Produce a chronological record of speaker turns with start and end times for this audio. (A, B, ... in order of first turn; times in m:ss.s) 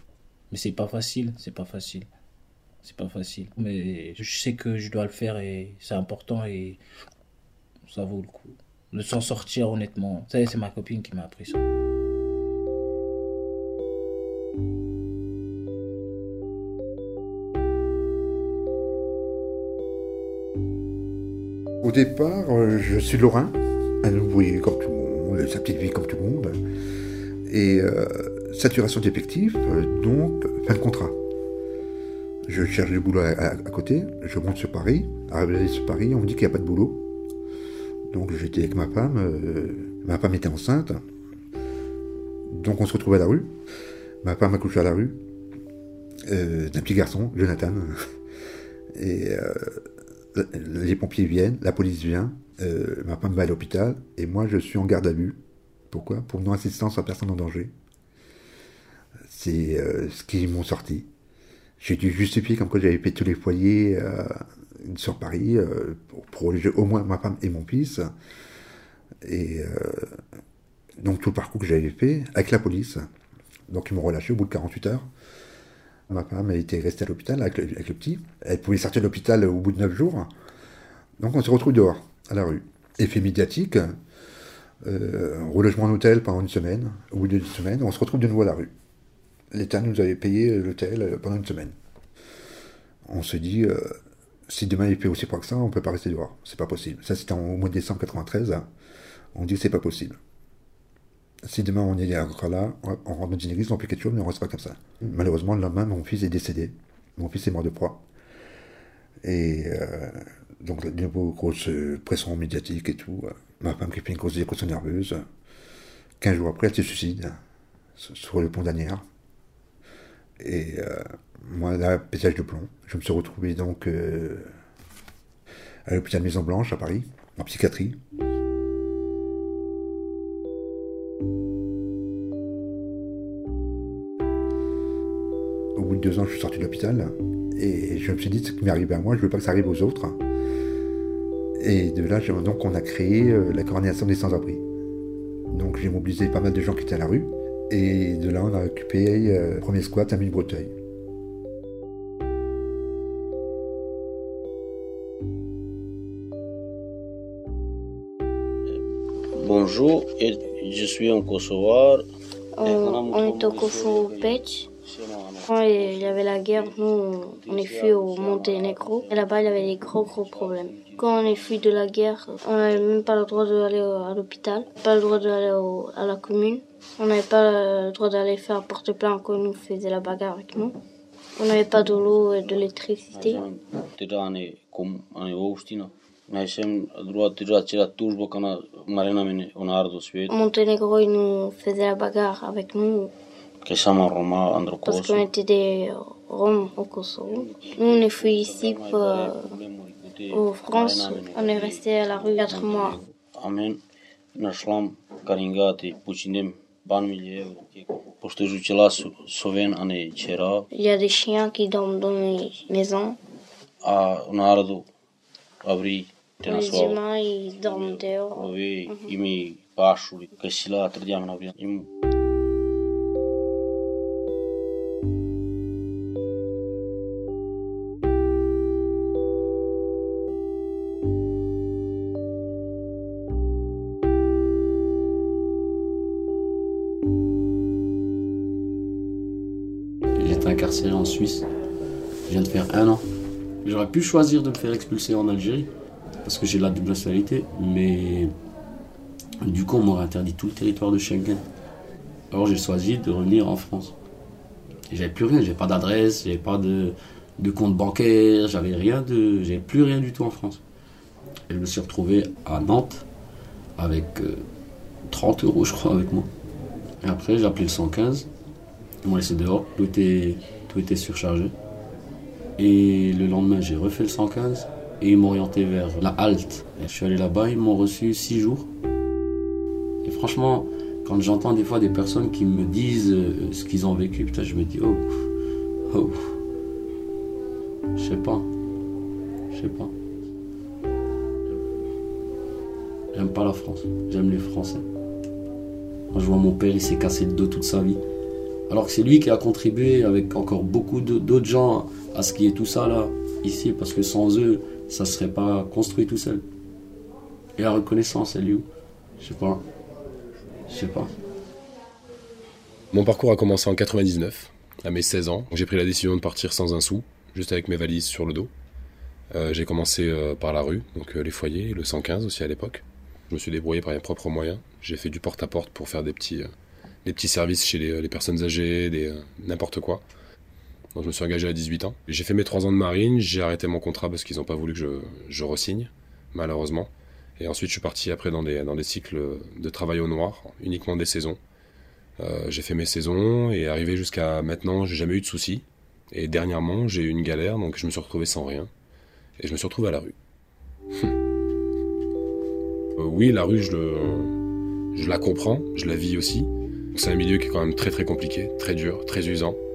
0:00.5-0:02.1 A
0:02.8-0:06.8 A
0:07.9-0:11.6 A
0:21.8-0:26.6 B
0:27.4-0:31.2 B
0:32.5-0:37.0 B
0:38.1-0:41.0 B
0:42.5-0:43.5 B
0:44.2-0:45.2 B
0:46.2-0:48.0 B
0:48.9-0:55.4 B
0:55.9-0:57.7 B
0:59.3-1:01.1 B
1:01.8-1:08.1 B
1:09.2-1:10.2 B
1:11.0-1:13.1 B
1:13.7-1:15.1 B
1:16.1-1:20.3 B
1:21.2-1:24.0 B
1:24.8-1:28.7 B
1:29.5-1:31.8 B
1:33.0-1:38.7 B
1:39.3-1:40.2 B
1:41.4-1:48.0 B
1:49.2-1:55.2 B
1:56.2-1:57.4 B
1:58.0-1:59.0 B
2:00.4-2:04.5 B
2:05.8-2:08.0 B
2:15.8-2:20.2 B
2:21.6-2:24.6 B
2:25.5-2:30.7 B
2:39.4-2:42.0 C
2:42.6-2:44.7 D
2:42.6-2:51.6 C
2:45.5-3:00.7 D
3:01.4-3:03.4 D
3:03.1-3:10.3 C
3:10.3-3:13.1 D
3:13.6-3:15.3 C
3:14.8-3:19.5 D
3:17.3-3:23.8 C
3:20.3-3:23.0 D
3:24.3-3:30.7 C
3:30.7-3:33.2 D
3:33.8-3:34.9 C
3:35.6-3:37.0 C
3:36.4-3:39.1 D
3:37.5-3:41.9 C
4:00.2-4:01.4 E
4:02.3-4:03.0 E
4:03.6-4:05.7 E
4:06.2-4:08.3 E
4:09.4-4:11.4 E
4:12.3-4:13.9 E
4:14.9-4:20.6 E
4:21.5-4:23.0 E
4:23.8-4:24.4 E
4:25.1-4:26.3 E
4:27.0-4:28.3 E
4:29.0-4:31.5 E
4:32.6-4:38.7 E
4:40.0-4:45.2 E
4:45.9-4:46.3 E
4:48.0-4:48.5 E
4:49.5-4:49.9 E
4:53.1-4:54.8 E
4:56.1-4:58.0 E
4:58.7-5:06.4 E
5:07.6-5:08.6 E
5:09.2-5:09.6 E
5:10.7-5:11.1 E
5:12.9-5:18.5 F
5:19.3-5:26.5 F
5:27.0-5:30.0 F
5:30.9-5:41.4 F
5:42.2-5:48.7 F
5:49.4-5:50.1 F
5:53.0-5:54.3 F
5:54.9-5:59.6 F